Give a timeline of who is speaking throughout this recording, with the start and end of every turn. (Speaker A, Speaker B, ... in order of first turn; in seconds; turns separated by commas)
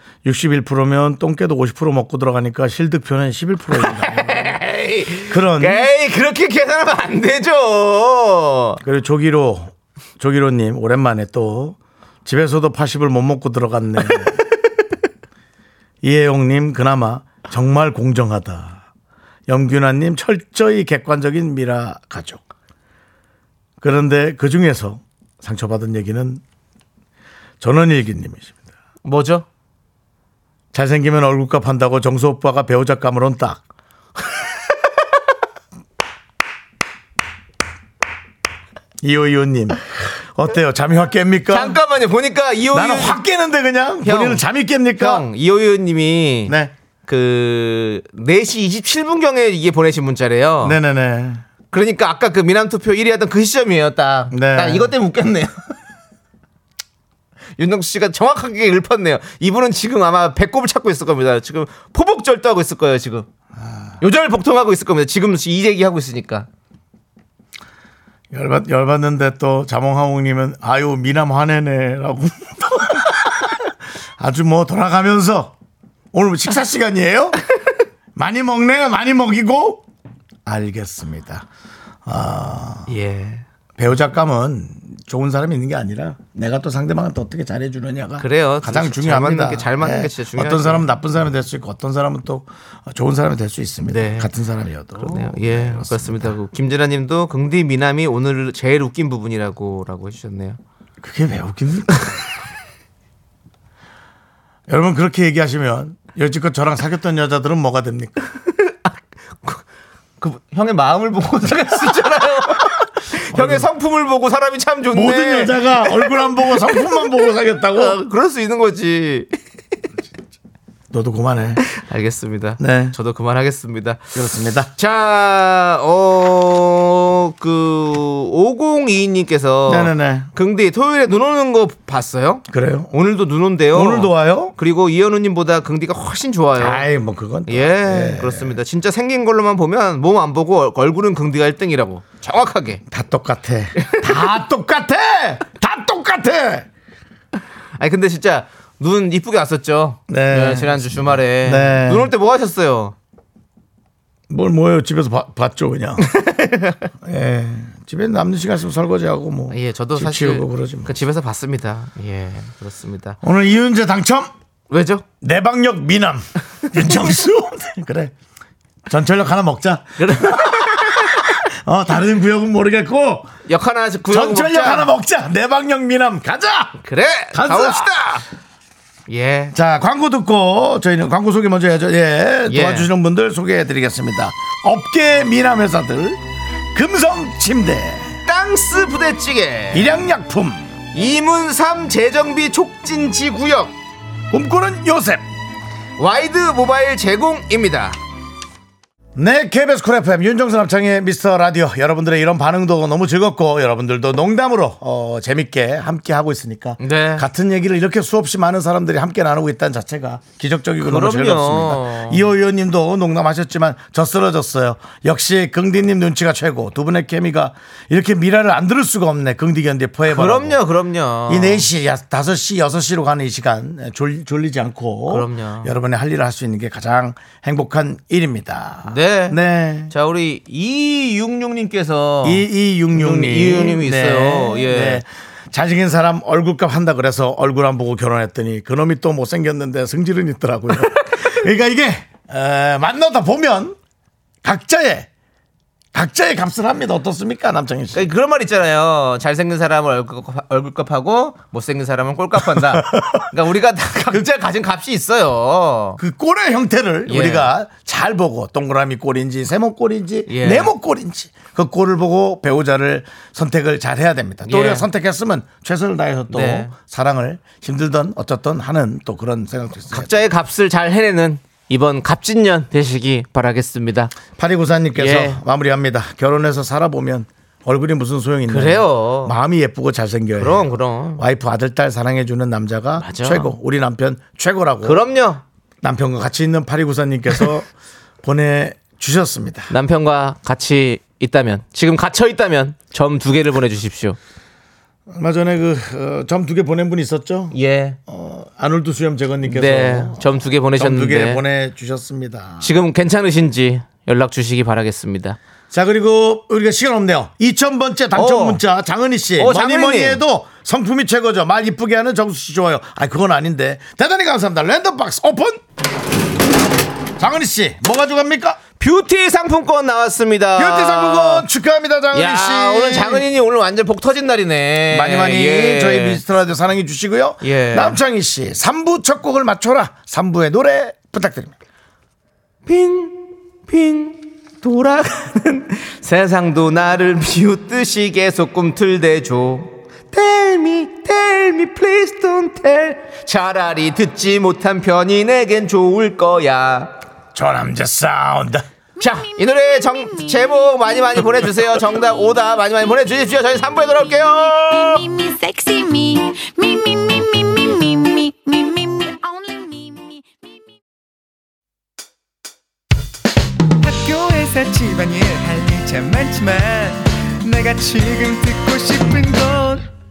Speaker A: 0.2-4.6, Speaker B: 3.8-8.8, Speaker A: 5.3-5.9, Speaker A: 8.8-14.4, Speaker A: 16.0-18.8, Speaker A: 19.5-22.4, Speaker A: 23.8-26.4, Speaker A: 27.6-28.6, Speaker B: 29.1-29.5, Speaker A: 30.7-33.6, Speaker A: 39.0-41.8, Speaker B: 41.5-43.2, Speaker A: 42.7-45.3, Speaker B: 44.0-44.4, Speaker B: 45.0-46.6, Speaker A: 46.5-46.7, Speaker B: 47.1-50.8, Speaker A: 50.6-51.4, Speaker B: 51.7-55.6, Speaker A: 54.3-54.9, Speaker B: 57.6-63.3, Speaker A: 63.6-63.9, Speaker B: 64.0-66.5, Speaker A: 68.3-75.5, Speaker A: 76.1-77.4, Speaker A: 78.2-79.8, Speaker A: 80.5-81.5, Speaker A: 82.0-82.9, Speaker B: 82.9-83.5, Speaker A: 83.8-96.3, Speaker B: 88.2-90.9, Speaker B: 93.9-94.3, Speaker B: 95.0-100.6, Speaker A: 101.0-102.1, Speaker A: 104.7-108.2, Speaker B: 108.6-108.9, Speaker B: 110.2-119.3, Speaker A: 113.3-113.7, Speaker A: 114.9-118.0, Speaker A: 120.9-121.6, Speaker B: 121.7-124.2, Speaker A: 122.6-123.0, Speaker A: 124.1-124.7, Speaker B: 124.8-136.8, Speaker A: 129.7-130.3, Speaker A: 132.5-132.9, Speaker A: 133.7-134.5, Speaker A: 136.6-138.6, Speaker B: 137.5-142.8, Speaker A: 142.9-146.7, Speaker B: 143.8-144.1, Speaker B: 147.8-152.9, Speaker A: 150.1-152.1, Speaker A: 154.3-156.1, Speaker B: 156.0-156.9, Speaker A: 157.0-160.9, Speaker B: 159.5-163.2, Speaker A: 163.2-164.3, Speaker B: 164.7-165.1, Speaker A: 165.2-168.1, Speaker A: 168.9-173.3, Speaker B: 170.0-171.3, Speaker B: 173.5-174.9, Speaker A: 174.1-176.8, Speaker B: 176.8-178.2, Speaker A: 177.3-177.9, Speaker B: 179.1-179.6, Speaker A: 179.5-186.2, Speaker B: 182.5-182.9, Speaker A: 186.7-188.2, Speaker B: 188.3-190.0, Speaker A: 189.7-190.7, Speaker B: 190.9-193.8, Speaker A: 194.3-195.2, Speaker B: 196.0-198.0, Speaker A: 199.2-220.6, Speaker B: 206.8-207.3, Speaker B: 210.8-212.3, Speaker B: 220.1-221.7, Speaker A: 221.3-229.9, Speaker B: 225.1-225.8, Speaker B: 228.8-229.4, Speaker B: 229.9-235.0, Speaker A: 232.2-243.8, Speaker A: 244.4-245.1, Speaker A: 245.9-248.1, Speaker B: 247.9-256.0, Speaker A: 252.5-253.2, Speaker A: 256.0-270.2, Speaker B: 257.1-257.5, Speaker B: 260.3-260.7, Speaker B: 264.5-264.9, Speaker B: 266.3-266.7, Speaker B: 269.9-274.1, Speaker A: 274.4-280.7, Speaker B: 275.0-275.4, Speaker B: 278.5-279.4, Speaker B: 280.4-281.2, Speaker A: 281.2-285.0, Speaker B: 283.0-283.5, Speaker B: 284.8-285.4, Speaker A: 285.8-287.7, Speaker A: 288.2-289.7, Speaker B: 289.7-294.2, Speaker A: 295.1-297.6, Speaker B: 297.5-298.0, Speaker A: 298.1-302.7, Speaker B: 299.4-301.4, Speaker B: 302.6-305.4, Speaker A: 305.7-315.6, Speaker B: 308.1-308.6, Speaker B: 309.4-310.2, Speaker A: 317.2-318.6, Speaker B: 318.8-321.5, Speaker A: 320.6-323.3, Speaker B: 322.1-326.2, Speaker A: 324.9-331.5, Speaker B: 327.4-328.0, Speaker B: 332.7-347.0, Speaker A: 347.3-348.7, Speaker B: 349.0-355.0, Speaker C: 354.7-360.5, Speaker D: 363.8-369.9